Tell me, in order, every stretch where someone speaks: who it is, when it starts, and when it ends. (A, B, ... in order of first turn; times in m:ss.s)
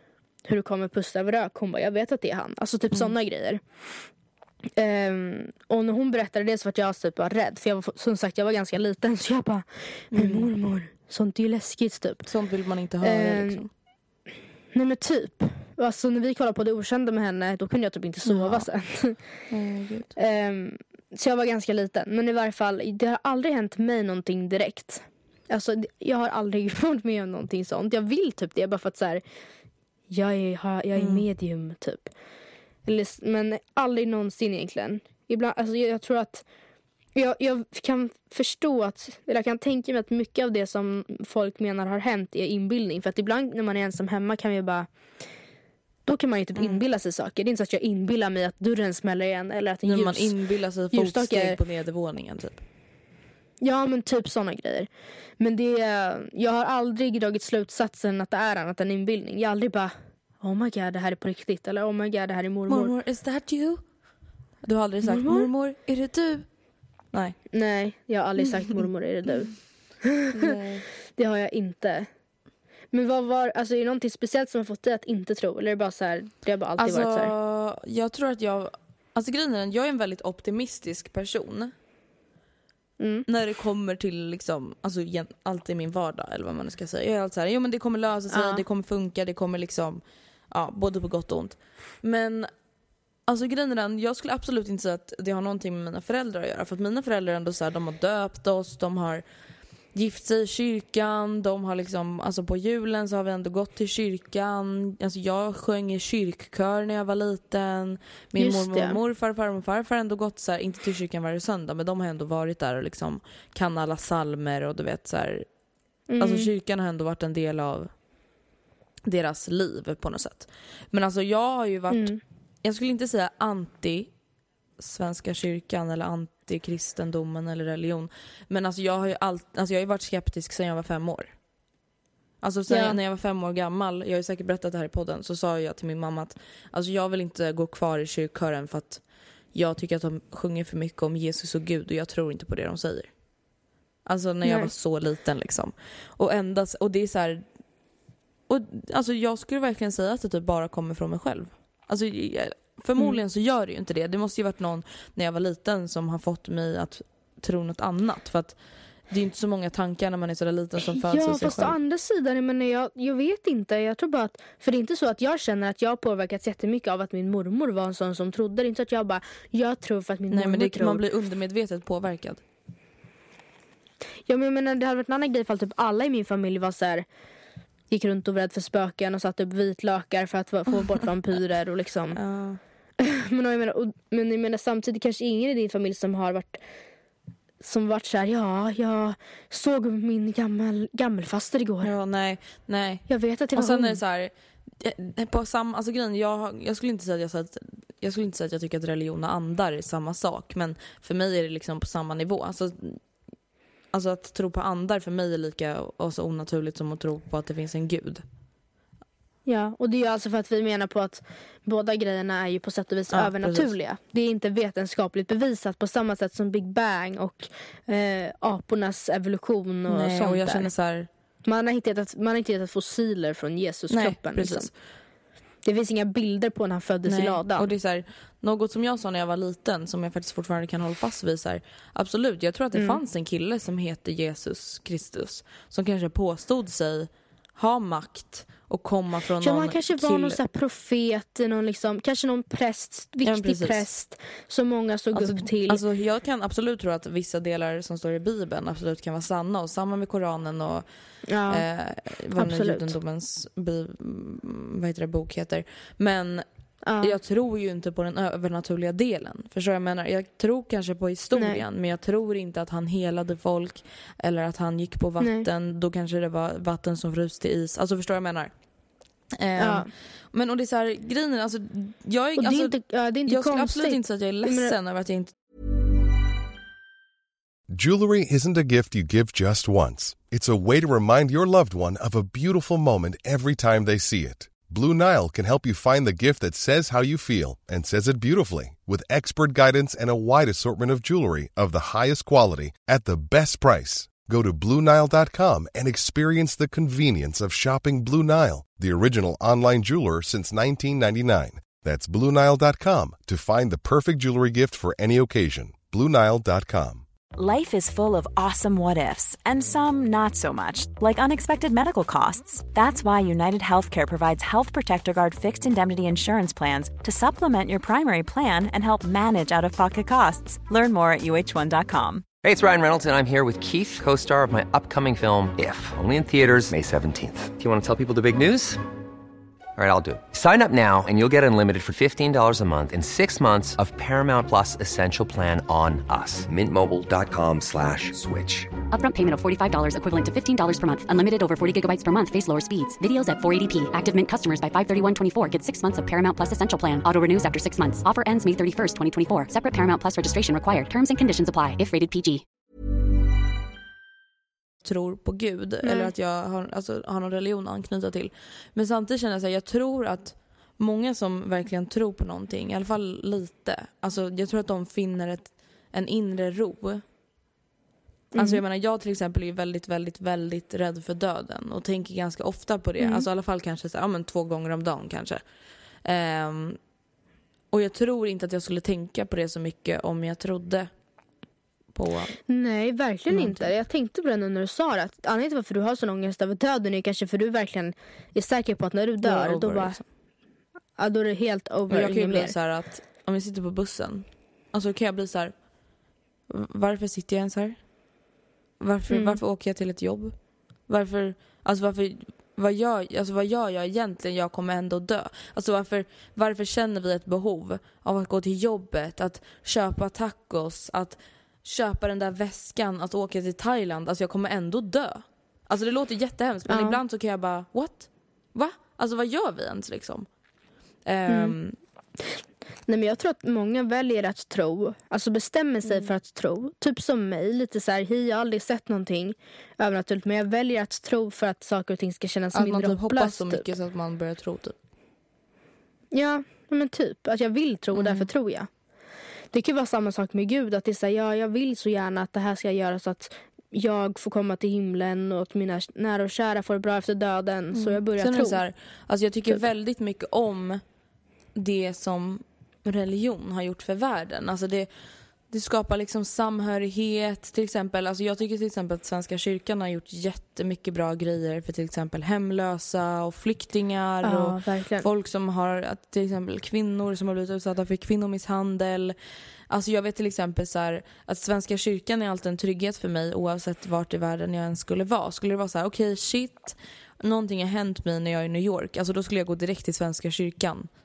0:00.4-0:03.6 A
0:04.8-0:12.2 A
0:10.1-0:10.5 B
0:12.2-0:13.7 B
0:13.0-0:13.6 A
0:14.7-0:19.2 A
0:18.2-0:18.7 B
0:19.5-0:20.1 B
0:20.2-0:29.2 A
0:30.1-0:32.1 A
0:31.0-0:31.2 B
0:32.9-0:36.4 A
0:37.2-0:44.9 A
0:46.1-0:50.4 A
0:49.8-0:52.6 B
0:50.9-0:51.6 A
0:53.6-0:54.9 A
0:55.4-1:02.9 A
1:02.7-1:03.8 B
1:04.6-1:06.5 B
1:05.1-1:05.5 A
1:07.5-1:09.5 A
1:08.5-1:08.8 B
1:10.0-1:10.6 A
1:10.3-1:10.8 B
1:11.2-1:12.1 A
1:12.9-1:17.3 A
1:16.8-1:21.7 B
1:23.0-1:23.3 A
1:23.3-1:32.5 B
1:28.3-1:28.6 A
1:33.3-1:39.2 B
1:39.9-1:55.5 B
1:48.4-1:49.0 A
1:56.1-1:56.5 A
1:56.2-1:57.9 B
1:59.1-2:04.1 B
2:01.9-2:02.2 A
2:04.8-2:11.3 B
2:12.4-2:19.0 B
2:12.7-2:13.0 A
2:19.5-2:23.1 B
2:24.1-2:27.4 B
2:24.4-2:24.7 A
2:28.5-2:38.6 B
2:39.1-2:41.8 B
2:40.8-2:51.0 A
2:50.3-2:52.4 B
2:54.3-2:57.1 A
2:57.9-3:02.2 A
3:02.1-3:02.6 B
3:03.0-3:06.6 A
3:07.6-3:11.9 A
3:11.8-3:23.0 B
3:13.1-3:14.0 A
3:23.9-3:28.2 B
3:29.5-3:40.7 A
3:33.1-3:33.7 B
3:39.9-3:41.1 B
3:41.4-3:44.7 A
3:43.9-3:44.7 B
3:45.7-3:47.7 A
3:47.1-4:00.4 B
3:59.4-4:05.8 A
4:03.2-4:03.8 B
4:05.1-4:10.8 B
4:11.3-4:11.6 A
4:11.5-4:16.4 B
4:12.4-4:12.9 A
4:16.8-4:17.1 A
4:17.0-4:28.5 B
4:21.4-4:21.6 A
4:25.2-4:25.5 A
4:29.4-4:35.3 B
4:29.6-4:29.9 A
4:32.4-4:34.8 A
4:37.7-5:07.0 C
5:07.4-5:22.3 D
5:22.4-5:28.8 E
5:29.8-5:38.7 E
5:38.9-5:52.4 F
5:54.8-6:07.0 B
5:55.8-5:56.1 A
6:08.3-6:08.6 A
6:08.4-6:15.4 B
6:13.0-6:13.3 A
6:16.0-6:16.8 B
6:17.7-6:20.9 B
6:22.0-6:22.4 B
6:22.5-6:30.0 A
6:23.3-6:23.7 B
6:29.2-6:30.0 B
6:31.0-6:32.6 A
6:31.9-6:35.5 B
6:36.5-6:37.8 B
6:38.8-6:40.4 B
6:39.1-6:39.4 A
6:40.9-7:00.3 B
6:56.7-6:57.0 A
7:01.1-7:01.8 B
7:01.3-7:01.6 A
7:02.9-7:13.6 A
7:05.9-7:06.1 B
7:12.5-7:14.8 B
7:16.1-7:18.7 A
7:17.9-7:18.3 B
7:19.5-7:28.6 A
7:27.7-7:30.8 B
7:31.6-7:34.9 B
7:35.5-7:49.2 B
7:44.2-7:45.1 A
7:49.7-8:00.9 B